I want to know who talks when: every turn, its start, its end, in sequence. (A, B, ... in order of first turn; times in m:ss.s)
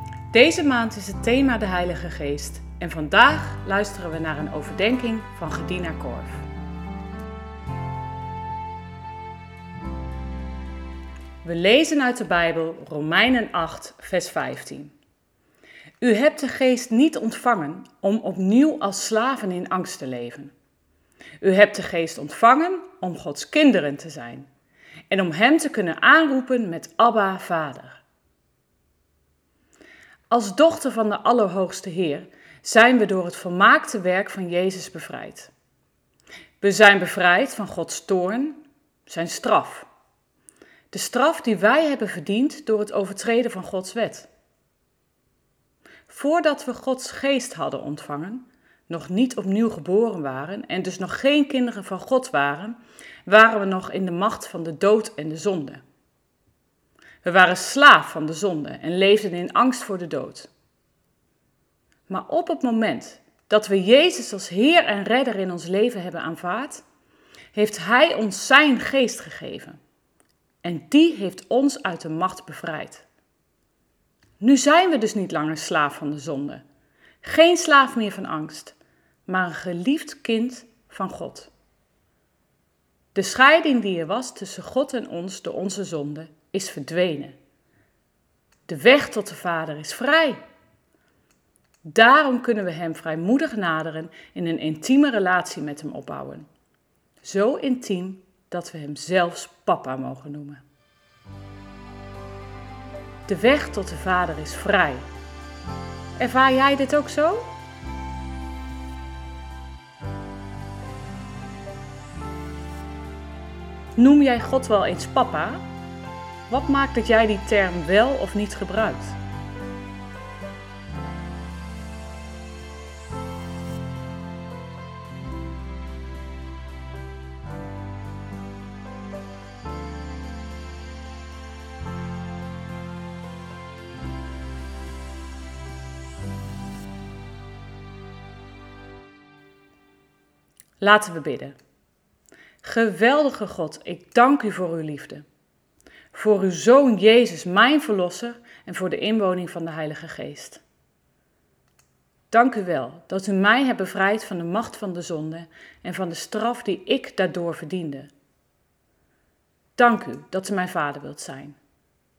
0:00.3-0:06.5 A
0:11.4-0:14.9 A
0:16.0-0:20.5 A
0:21.4-0:24.5 A
0:25.1-0:28.0 A
0:30.3-0:35.5 A
0:36.6-0:39.9 A
0:40.9-0:44.3 A
0:46.1-0:55.8 A
0:57.2-1:00.5 A
1:02.1-1:06.8 A
1:07.5-1:09.8 A
1:10.6-1:13.0 A
1:14.4-1:16.6 A
1:17.2-1:21.5 A
1:23.1-1:27.3 A
1:28.7-1:30.4 A
1:31.8-1:36.5 A
1:37.2-1:40.6 A
1:43.3-1:45.1 A
1:46.2-1:47.5 A
1:54.0-1:55.6 A
1:56.5-1:59.2 A
2:20.8-2:21.6 A
2:22.6-2:25.2 A
2:26.1-2:30.6 A
2:32.3-2:38.1 A
2:39.8-2:41.6 A